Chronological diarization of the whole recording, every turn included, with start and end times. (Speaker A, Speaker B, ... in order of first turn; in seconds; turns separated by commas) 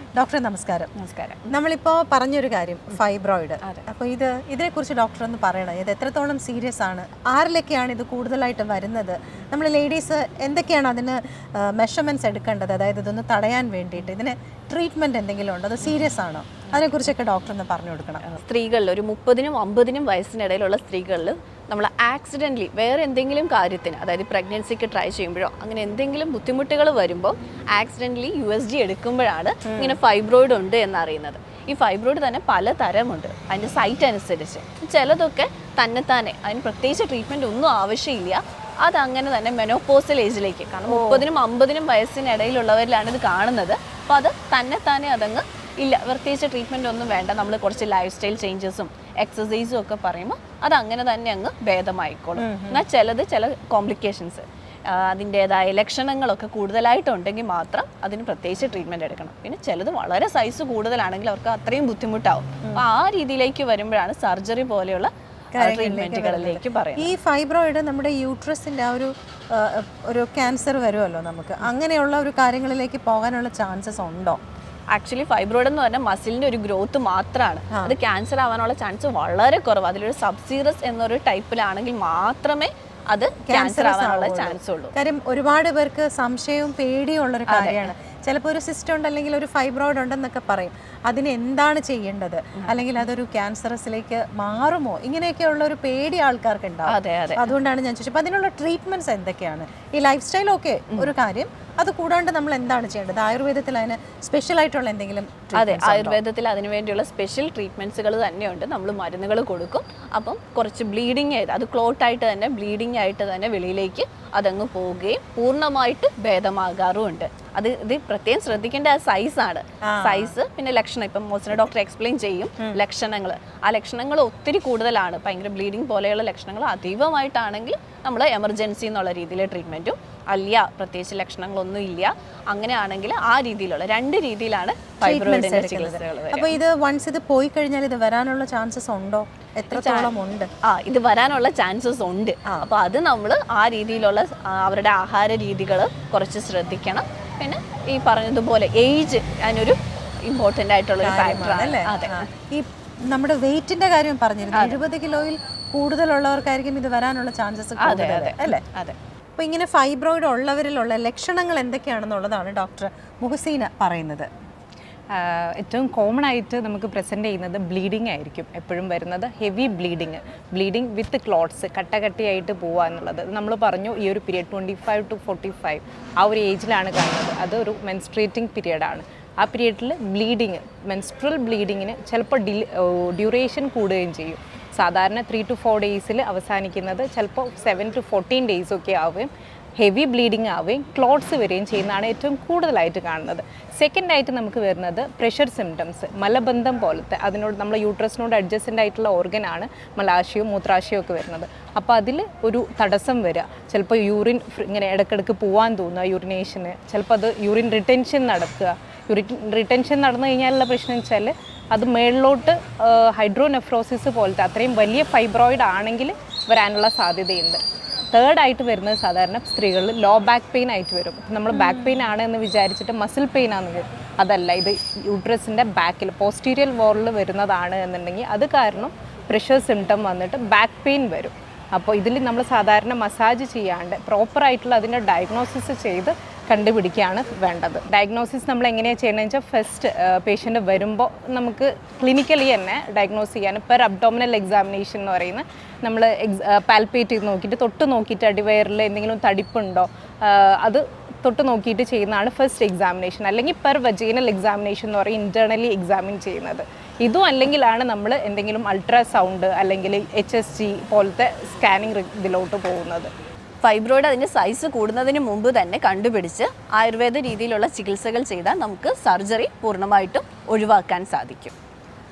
Speaker A: 0.2-0.9, Speaker B: 0.9-1.5, Speaker A: 1.5-18.2, Speaker B: 18.3-67.1, Speaker A: 29.6-29.9, Speaker A: 40.9-41.2, Speaker A: 52.4-52.8, Speaker A: 65.6-74.4, Speaker B: 74.9-84.9, Speaker A: 77.7-78.0, Speaker A: 83.5-106.2, Speaker B: 87.5-87.9, Speaker B: 92.6-93.0, Speaker B: 96.9-97.4, Speaker B: 105.5-136.6, Speaker A: 119.8-120.3, Speaker A: 135.0-140.5, Speaker B: 139.7-140.1, Speaker B: 140.6-152.2, Speaker A: 151.0-158.6, Speaker B: 157.8-158.9, Speaker A: 159.4-164.3, Speaker C: 165.1-263.1, Speaker A: 221.5-221.9, Speaker B: 263.6-271.5